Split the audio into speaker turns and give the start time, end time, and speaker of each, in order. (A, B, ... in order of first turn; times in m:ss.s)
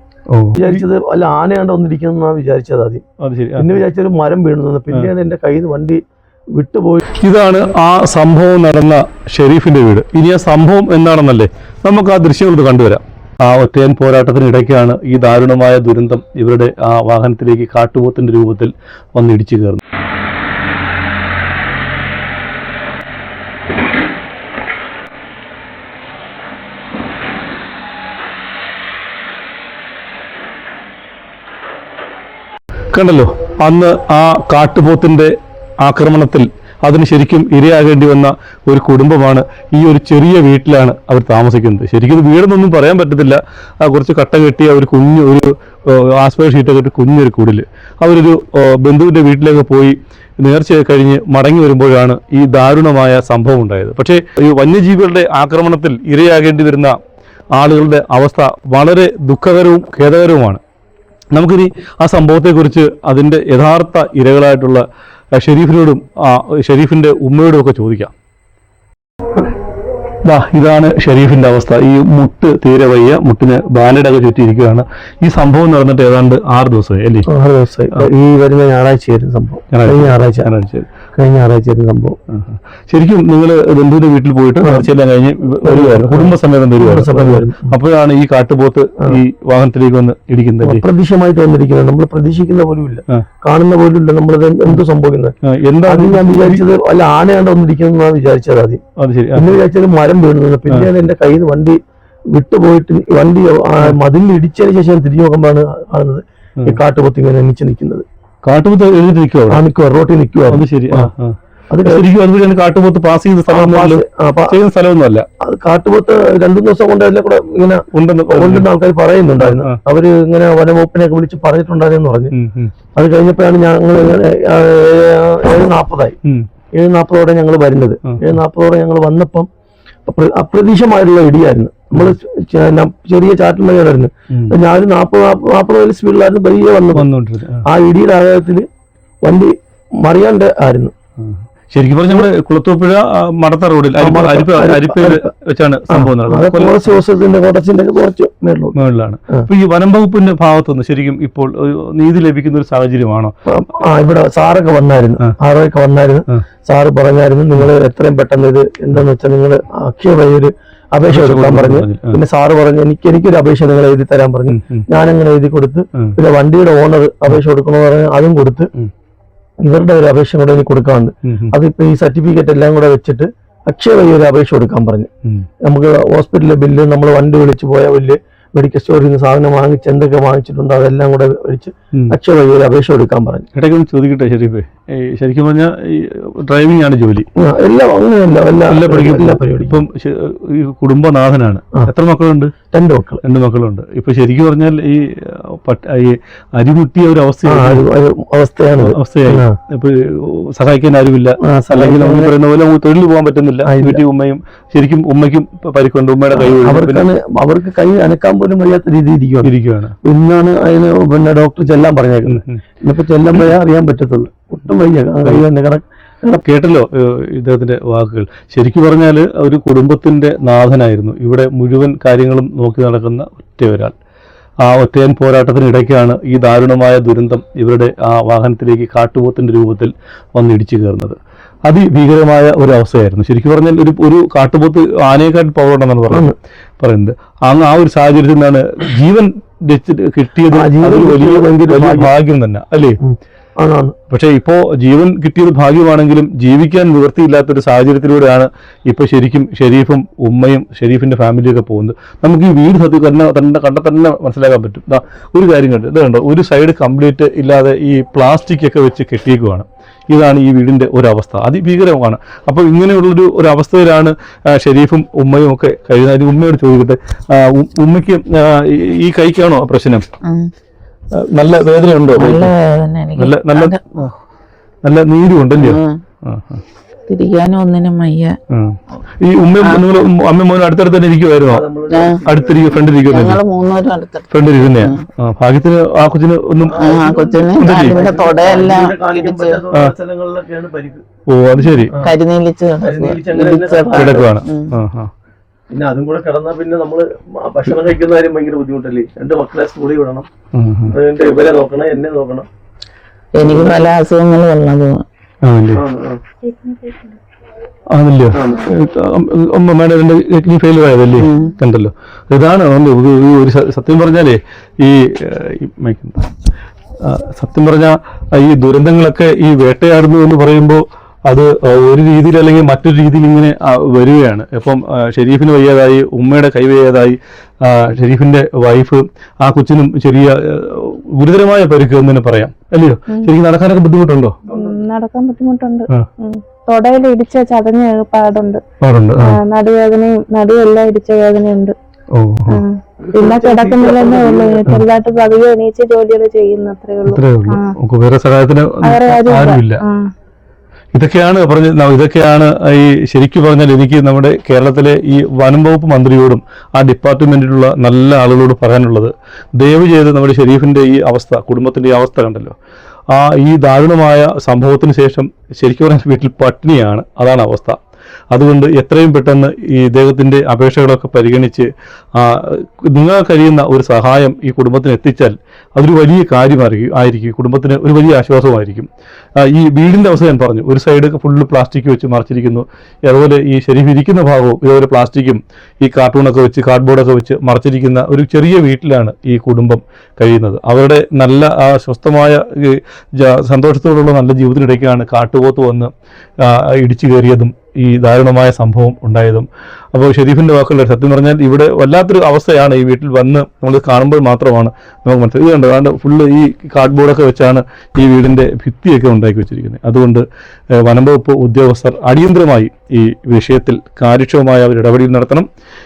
0:00.3-0:00.8 A
0:00.6-0:03.0 B
0:03.2-0:03.8 A
0:03.6-0:06.0 B
0:06.6-0:07.0 B
0:07.1-0:19.8 A
0:32.9-0:57.0 A
0:57.6-1:00.6 A
1:01.3-1:08.1 A
1:10.2-1:17.3 A
1:17.3-1:20.5 B
1:19.7-1:20.9 A
1:21.2-1:22.2 B
1:22.3-1:30.8 A
1:24.6-1:24.9 B
1:25.6-1:27.7 B
1:30.6-1:35.3 B
1:35.5-1:36.6 A
1:35.8-1:38.8 B
1:39.0-1:39.6 A
1:39.3-1:41.8 B
1:42.3-1:48.1 B
1:48.4-1:49.6 A
1:49.5-1:51.1 B
1:50.5-1:55.3 A
1:51.7-1:52.1 B
1:53.5-1:54.6 B
1:55.4-2:02.3 B
1:57.9-1:58.7 A
1:59.4-1:59.8 A
2:02.3-2:02.7 A
2:03.0-2:06.2 B
2:06.8-2:09.5 B
2:10.1-2:17.1 B
2:11.9-2:12.2 A
2:16.9-2:17.6 A
2:17.7-2:18.6 B
2:19.2-2:20.9 B
2:21.2-2:26.9 A
2:24.0-2:25.3 B
2:25.9-2:28.8 B
2:28.8-2:33.4 A
2:33.5-2:48.7 B
2:41.1-2:42.2 A
2:44.5-2:44.9 A
2:49.6-2:55.1 B
2:51.3-2:51.5 A
2:55.7-3:03.5 B
3:03.6-3:07.3 A
3:07.4-3:09.8 B
3:08.7-3:12.5 A
3:12.7-3:13.2 B
3:13.2-3:17.8 A
3:17.4-3:19.5 B
3:18.8-3:27.1 A
3:21.4-3:22.3 B
3:23.6-3:24.0 B
3:26.3-3:29.5 B
3:29.4-3:30.0 A
3:30.0-3:36.4 B
3:32.3-3:32.6 A
3:36.3-3:43.9 A
3:44.6-4:03.0 A
4:00.5-4:02.1 B
4:03.0-4:04.0 B
4:04.1-4:30.1 A
4:30.2-4:30.5 C
4:31.1-4:32.5 A
4:32.2-4:34.1 C
4:33.2-4:34.1 A
4:34.8-4:36.6 A
4:35.5-4:36.0 C
4:37.1-4:38.4 C
4:38.5-4:41.7 A
4:41.5-4:42.9 B
4:41.9-4:42.2 C
4:42.2-4:43.4 A
4:43.1-4:45.0 C
4:44.3-4:46.8 A
4:46.7-4:51.0 B
4:46.8-4:49.6 C
4:47.6-4:48.0 A
4:51.3-4:51.9 A
4:51.9-4:52.2 B
4:51.9-4:54.8 C
4:52.8-4:54.3 B
4:54.0-4:55.1 A
4:55.7-5:00.3 B
5:00.5-5:01.0 A
5:00.9-5:02.5 B
5:03.4-5:05.0 C
5:03.4-5:03.9 B
5:05.4-5:05.8 A
5:05.7-5:06.2 B
5:06.4-5:07.1 D
5:07.9-5:16.3 A
5:08.3-5:08.7 B
5:11.2-5:11.5 C
5:17.0-5:34.3 A
5:34.5-5:34.8 B
5:34.5-5:38.6 D
5:38.8-5:39.4 A
5:39.2-5:41.8 D
5:42.1-5:42.6 A
5:42.5-5:47.7 D
5:43.1-5:44.6 B
5:47.1-5:49.8 A
5:48.8-5:50.1 D
5:50.9-6:02.6 A
6:03.1-6:07.8 A
6:08.3-6:50.2 A
6:50.8-6:55.5 A